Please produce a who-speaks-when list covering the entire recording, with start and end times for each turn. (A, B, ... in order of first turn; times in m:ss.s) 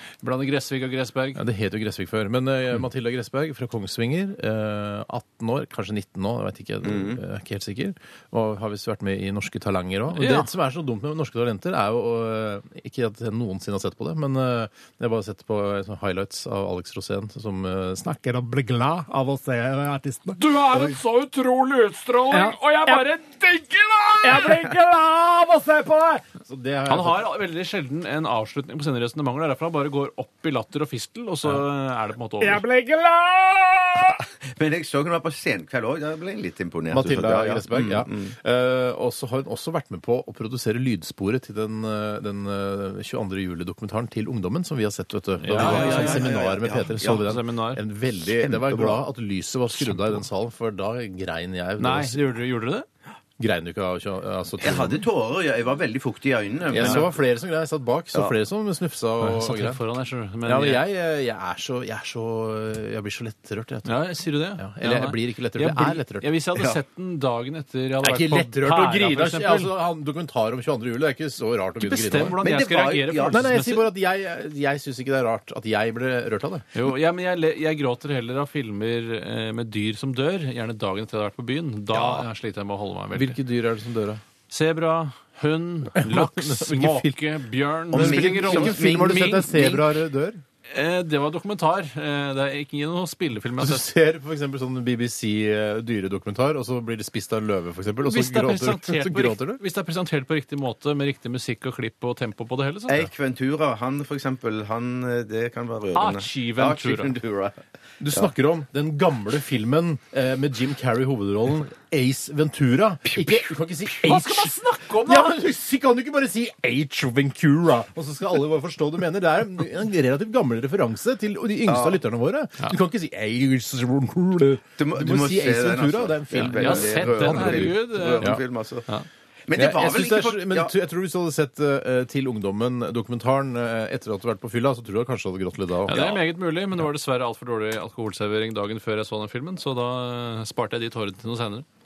0:00.2-0:01.4 A
0:01.4-0:21.0 B
0:06.8-0:07.2 C
0:10.1-0:10.5 A
0:20.4-0:24.6 A
0:22.3-0:23.1 B
0:24.2-0:27.3 B
0:26.9-0:32.6 A
0:32.4-0:34.2 B
0:34.2-0:38.3 C
0:36.9-0:52.2 B
0:45.4-0:46.3 A
0:45.5-0:47.3 C
0:47.2-0:47.8 A
0:48.3-0:49.0 C
0:51.8-0:52.9 A
0:53.4-0:55.0 B
0:54.6-0:57.2 C
0:56.7-0:59.8 B
0:56.8-0:57.0 A
0:59.2-1:00.8 A
1:00.4-1:06.3 B
1:03.8-1:09.7 A
1:08.0-1:12.4 B
1:11.8-1:13.9 A
1:12.4-1:13.5 C
1:13.3-1:16.7 B
1:16.7-1:23.4 A
1:23.1-1:24.2 B
1:24.5-1:29.5 A
1:26.0-1:27.2 B
1:27.9-1:30.4 B
1:27.9-1:29.9 C
1:30.7-1:33.9 A
1:33.6-1:39.6 B
1:38.0-1:43.1 A
1:42.9-1:47.6 C
1:45.9-1:47.1 A
1:48.0-2:08.4 B
1:53.1-1:53.4 C
1:53.9-1:55.4 A
2:01.7-2:02.0 C
2:04.8-2:08.8 C
2:06.5-2:09.1 A
2:09.5-2:10.7 C
2:09.5-2:16.2 B
2:15.9-2:21.6 A